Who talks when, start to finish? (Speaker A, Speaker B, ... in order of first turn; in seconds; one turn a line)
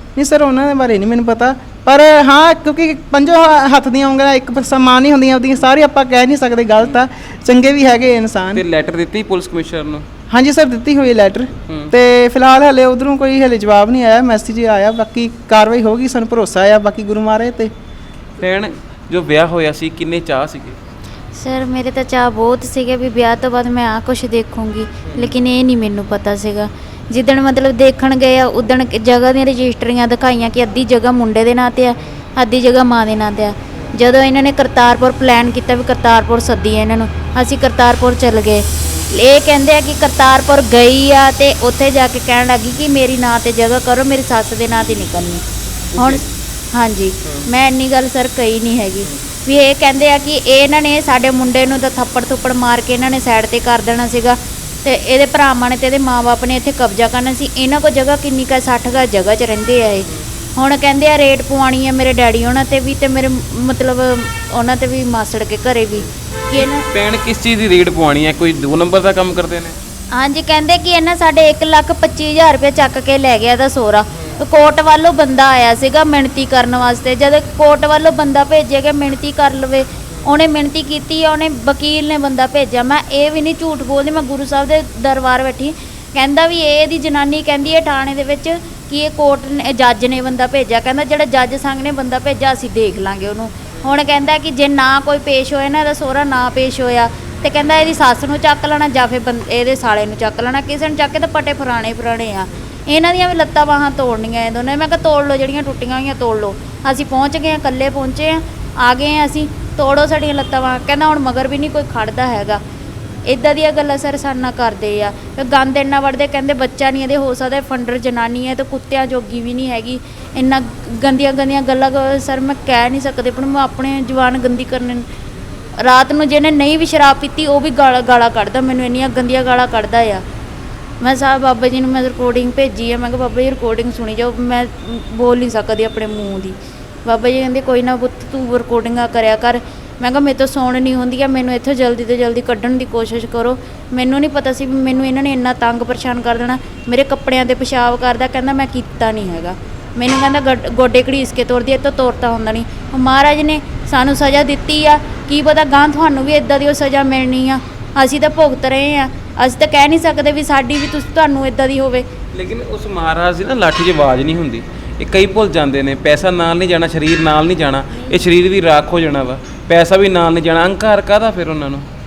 Speaker A: 0.1-8.6
Speaker B: 8.5-10.1
Speaker A: 10.3-17.7
Speaker B: 11.7-11.9
Speaker B: 18.4-20.8
Speaker C: 21.3-45.4
Speaker B: 25.1-25.3
Speaker B: 45.9-46.2
Speaker C: 46.0-66.8
Speaker B: 66.5-69.8
Speaker C: 70.1-112.6
Speaker C: 113.2-125.0
Speaker C: 125.8-130.2
Speaker C: 131.0-162.1
Speaker B: 162.3-171.9